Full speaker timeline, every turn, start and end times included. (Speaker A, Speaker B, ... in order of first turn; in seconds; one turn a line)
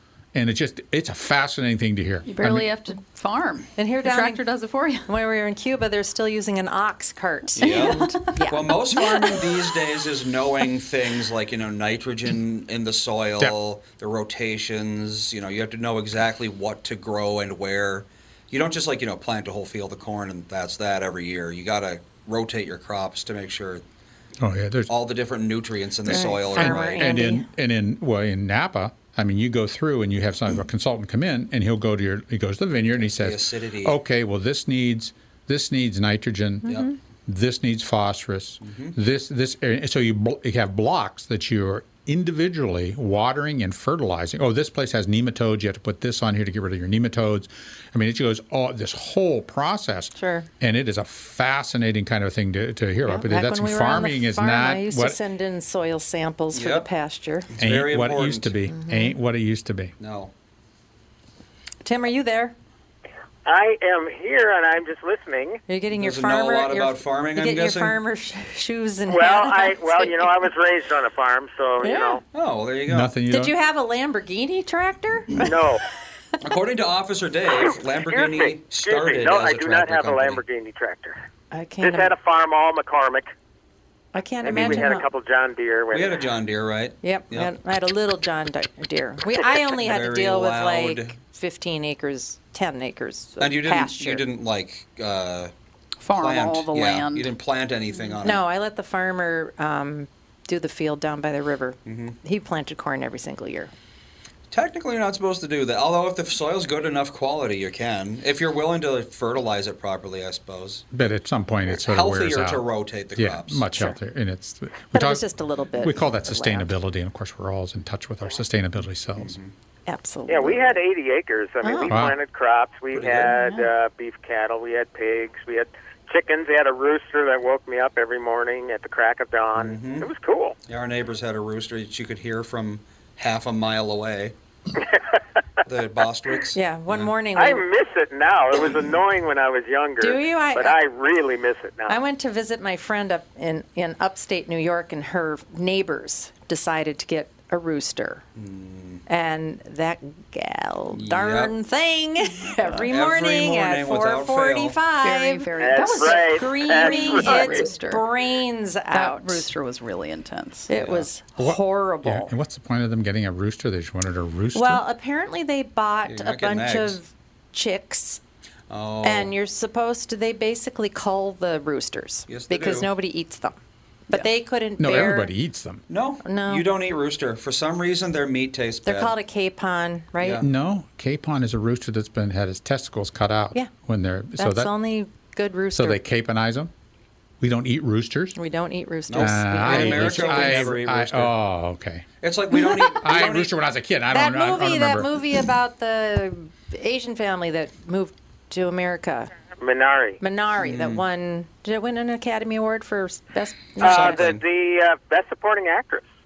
Speaker A: 0.3-2.7
Speaker B: 2.2-5.1
Speaker C: 3.8-4.5
Speaker C: 5.0-9.4
Speaker D: 7.5-23.8
Speaker B: 7.6-8.3
Speaker A: 24.4-24.9
Speaker D: 24.9-27.2
Speaker C: 26.1-27.4
Speaker A: 26.1-55.2
Speaker D: 33.0-34.0
Speaker D: 38.6-39.0
Speaker C: 50.2-50.5
Speaker C: 53.0-57.5
Speaker D: 56.5-56.9
Speaker D: 57.5-58.5
Speaker A: 57.6-59.9
Speaker C: 58.7-59.1
Speaker D: 60.0-60.3
Speaker C: 61.8-62.5
Speaker E: 63.4-65.6
Speaker C: 65.7-70.4
Speaker D: 65.9-68.0
Speaker E: 69.1-72.2
Speaker C: 71.8-72.2
Speaker D: 72.3-73.1
Speaker A: 72.9-73.5
Speaker C: 73.3-75.5
Speaker E: 75.4-75.8
Speaker D: 76.4-80.4
Speaker E: 78.1-81.2
Speaker C: 81.5-82.1
Speaker E: 81.8-83.3
Speaker C: 84.1-85.1
Speaker E: 84.4-86.2
Speaker D: 84.5-84.9
Speaker D: 85.9-87.5
Speaker C: 87.0-94.2
Speaker D: 89.7-91.1
Speaker D: 93.4-95.5
Speaker B: 96.0-97.3
Speaker D: 96.1-98.4
Speaker C: 98.2-103.7
Speaker D: 101.8-102.2
Speaker D: 104.5-110.9
Speaker A: 110.9-119.3
Speaker D: 111.7-113.7
Speaker C: 114.9-116.7
Speaker D: 119.2-119.5
Speaker C: 119.8-120.8
Speaker E: 120.3-130.6
Speaker C: 121.6-122.0
Speaker A: 121.9-122.2
Speaker D: 122.9-123.3
Speaker D: 129.5-130.1
Speaker D: 130.7-134.3
Speaker D: 135.7-137.1
Speaker C: 136.5-137.6
Speaker E: 137.3-142.0
Speaker C: 140.0-140.8
Speaker C: 141.9-148.2
Speaker D: 148.3-149.0
Speaker C: 149.1-159.5
Speaker D: 150.9-151.5
Speaker D: 152.9-154.8
Speaker B: 155.0-158.0
Speaker E: 155.6-157.7
Speaker B: 158.9-160.7
Speaker C: 160.7-162.3
Speaker D: 160.7-161.1
Speaker A: 161.4-164.8
Speaker C: 164.5-168.2
Speaker D: 166.1-167.0
Speaker D: 168.7-169.3
Speaker C: 169.0-173.6
Speaker D: 172.3-172.9
Speaker C: 174.1-175.3
Speaker A: 174.8-175.8
Speaker D: 175.9-179.1
Speaker C: 176.2-176.7
Speaker C: 178.8-180.4
Speaker D: 180.2-180.5
Speaker A: 180.4-184.7
Speaker C: 184.4-186.0
Speaker A: 185.7-186.7
Speaker A: 187.4-188.3
Speaker C: 188.3-190.8
Speaker D: 189.1-191.3
Speaker A: 189.2-192.1
Speaker D: 192.2-193.6
Speaker A: 193.0-195.1
Speaker C: 194.1-199.3
Speaker E: 199.6-200.2
Speaker C: 200.2-204.3
Speaker D: 200.6-201.0
Speaker D: 203.8-204.4
Speaker E: 203.8-206.0